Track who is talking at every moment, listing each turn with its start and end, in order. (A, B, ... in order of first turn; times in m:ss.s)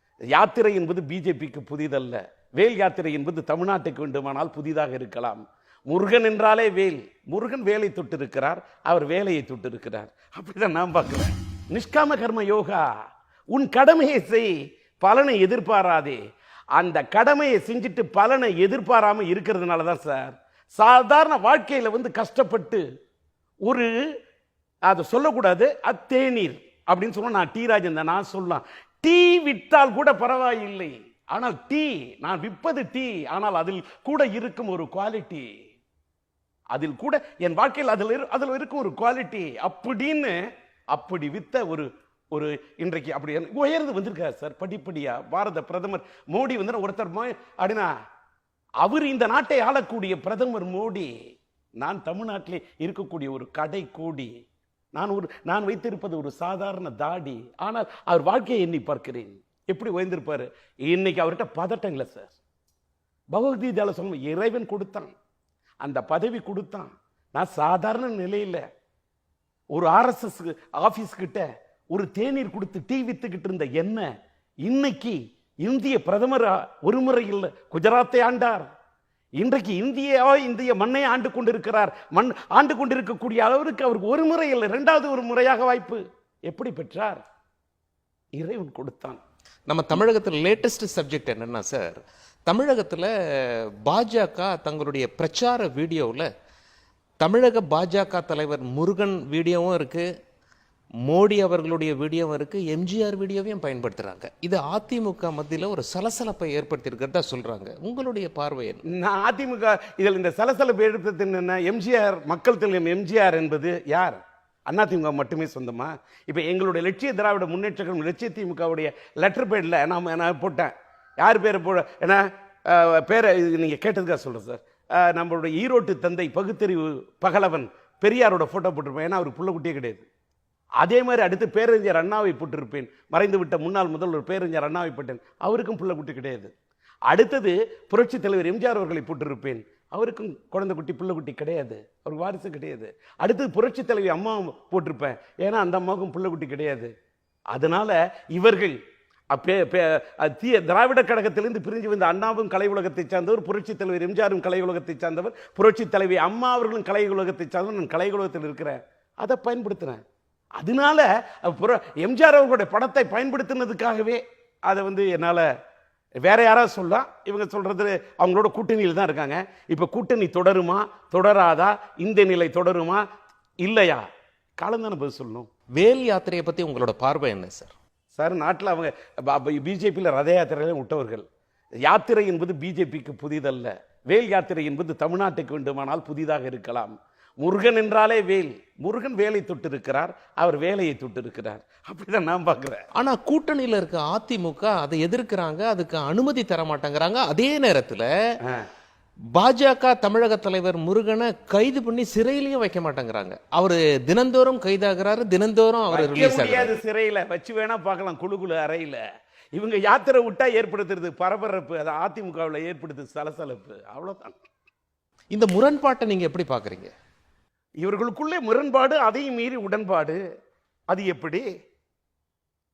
0:00.3-0:12.8 A
0:13.5-0:16.2 A
0:16.8-0:22.8 A
0:23.6-0:23.9 A
0:24.9-0:35.5 A
0:36.7-0:40.4 A
0:40.9-0:47.9 A
0:48.8-0:51.1 A
0:51.8-0:54.3 A
0:54.9-1:02.4 A
1:03.3-1:05.1 A
1:05.8-1:08.6 A
1:09.7-1:14.1 A
1:14.6-1:18.7 A
1:19.4-1:27.2 A
1:28.4-1:29.2 A
1:29.7-1:36.3 B
1:37.2-1:40.0 B
1:41.1-1:48.8 B
1:48.9-2:10.1 A
2:10.8-2:16.5 A
2:17.1-2:26.9 A
2:27.5-2:28.8 A
2:29.3-2:40.0 A
2:40.6-2:45.5 A
2:46.2-2:53.0 A
2:53.6-2:54.0 A
2:54.6-2:55.5 A
2:55.8-2:57.7 B
2:58.1-3:01.2 A
3:01.8-3:12.8 A
3:12.9-3:18.1 B
3:19.3-3:26.7 B
3:25.9-3:29.0 A
3:29.6-3:34.4 A
3:35.3-3:36.9 B
3:37.8-3:40.2 A
3:40.9-3:41.4 A